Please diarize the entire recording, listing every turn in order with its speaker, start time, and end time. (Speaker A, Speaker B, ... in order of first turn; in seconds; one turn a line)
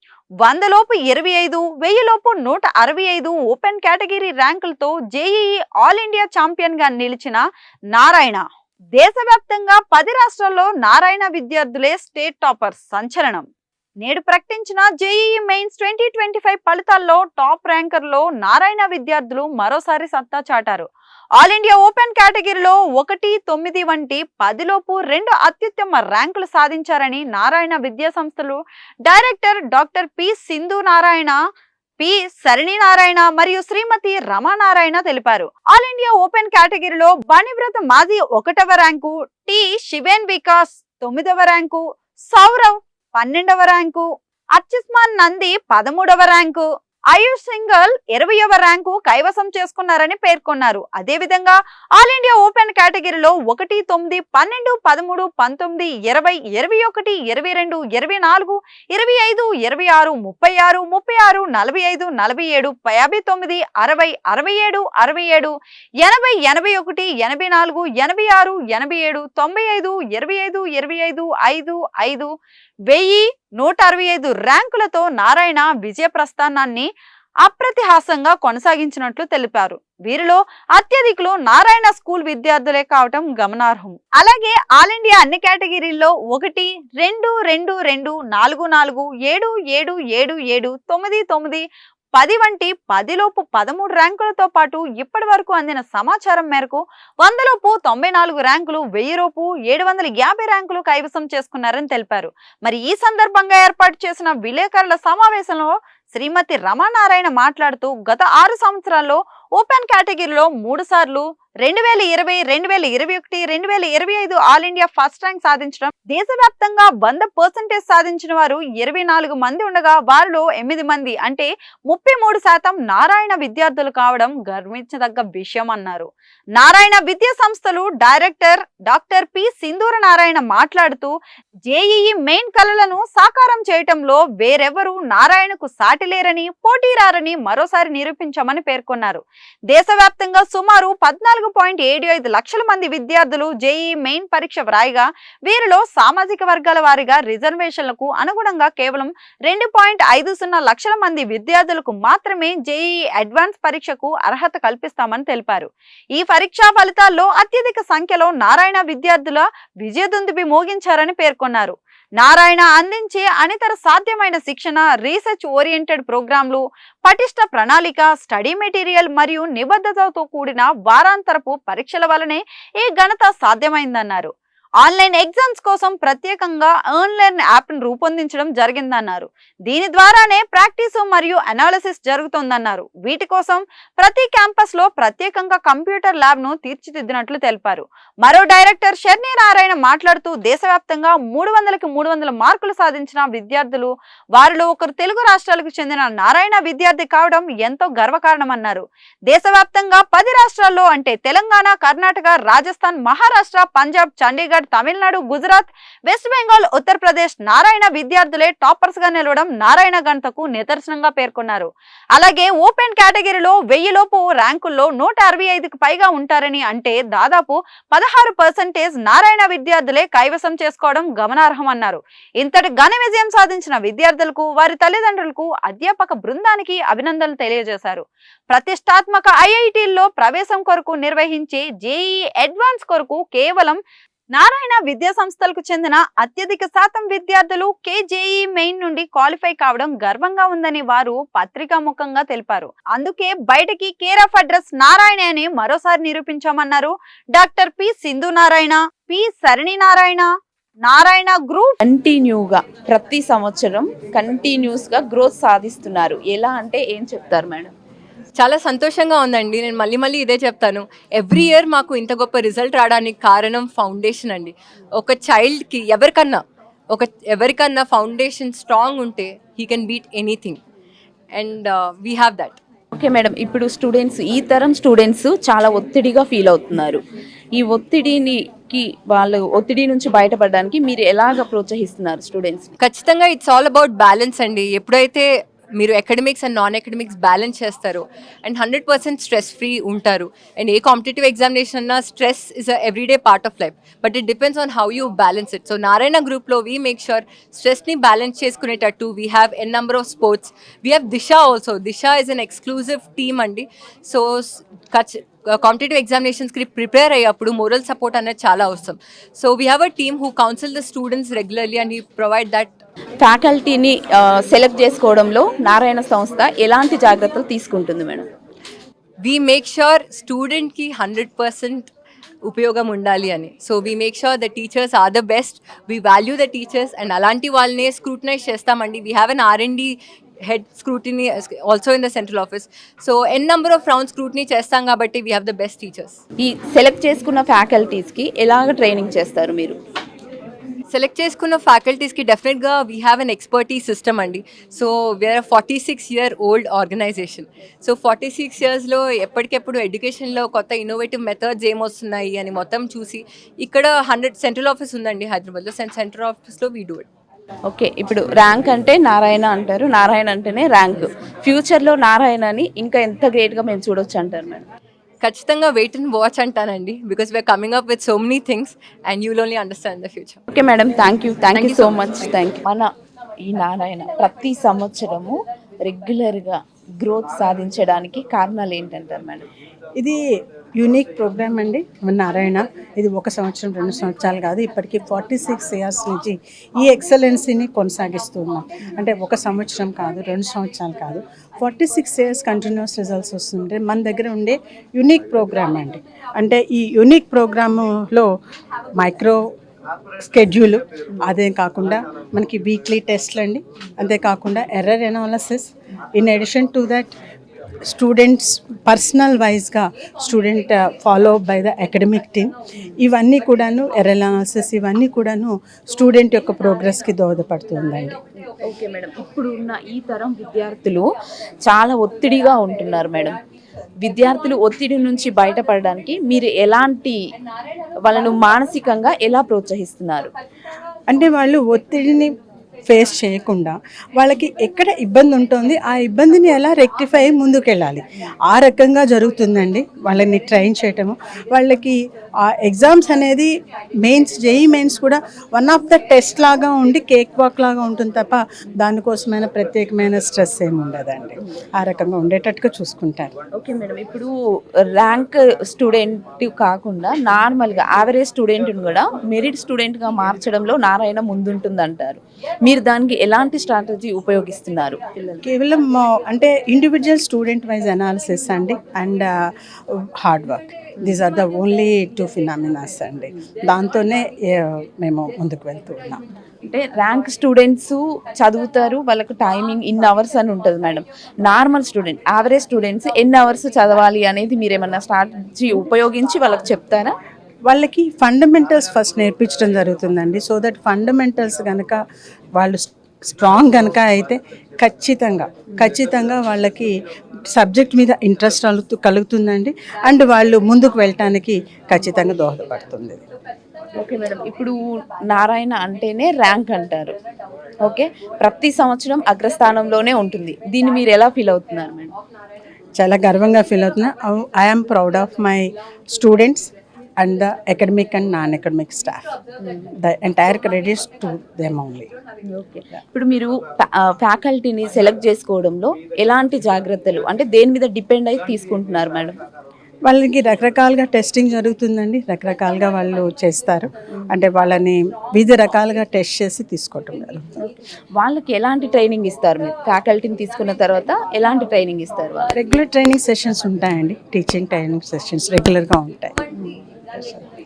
Speaker A: 0.4-8.4
Speaker A: 8.9-13.4
Speaker A: 14.0-20.9
Speaker A: 21.4-31.4
Speaker A: 32.0-72.3
Speaker A: 72.9-76.9
Speaker A: 77.4-91.6
Speaker A: 92.2-131.1
Speaker A: 131.7-233.8
Speaker A: 234.3-250.3
Speaker A: 250.8-251.8
Speaker B: 251.8-257.7
Speaker C: 258.4-270.6
Speaker C: 271.3-272.6
Speaker B: 272.9-277.0
Speaker B: 277.6-282.7
Speaker C: 282.8-312.8
Speaker B: 313.2-318.3
Speaker C: 319.2-321.9
Speaker C: 322.4-336.2
Speaker B: 336.4-339.8
Speaker C: 340.9-357.1
Speaker B: 357.7-364.7
Speaker C: 365.2-370.4
Speaker B: 370.5-372.9
Speaker C: 371.5-372.3
Speaker B: 373.4-379.5
Speaker D: 380.8-398.3
Speaker D: 399.0-399.5
Speaker D: 400.2-407.1
Speaker D: 407.9-418.2
Speaker B: 418.6-421.1
Speaker B: 421.6-423.4
Speaker B: 424.0-427.2
Speaker B: 428.0-430.3
Speaker D: 431.1-432.3
Speaker D: 432.9-453.3
Speaker B: 453.6-454.3
Speaker B: 455.0-465.0
Speaker D: 465.4-469.3
Speaker D: 469.9-476.2
Speaker B: 476.6-487.1
Speaker D: 487.7-492.0
Speaker D: 492.6-496.9
Speaker D: 497.5-503.2
Speaker B: 504.0-507.1
Speaker B: 507.8-512.1
Speaker D: 513.0-519.3
Speaker D: 520.0-522.1
Speaker B: 522.5-529.4
Speaker D: 530.0-537.6
Speaker B: 537.6-542.5
Speaker D: 542.5-547.4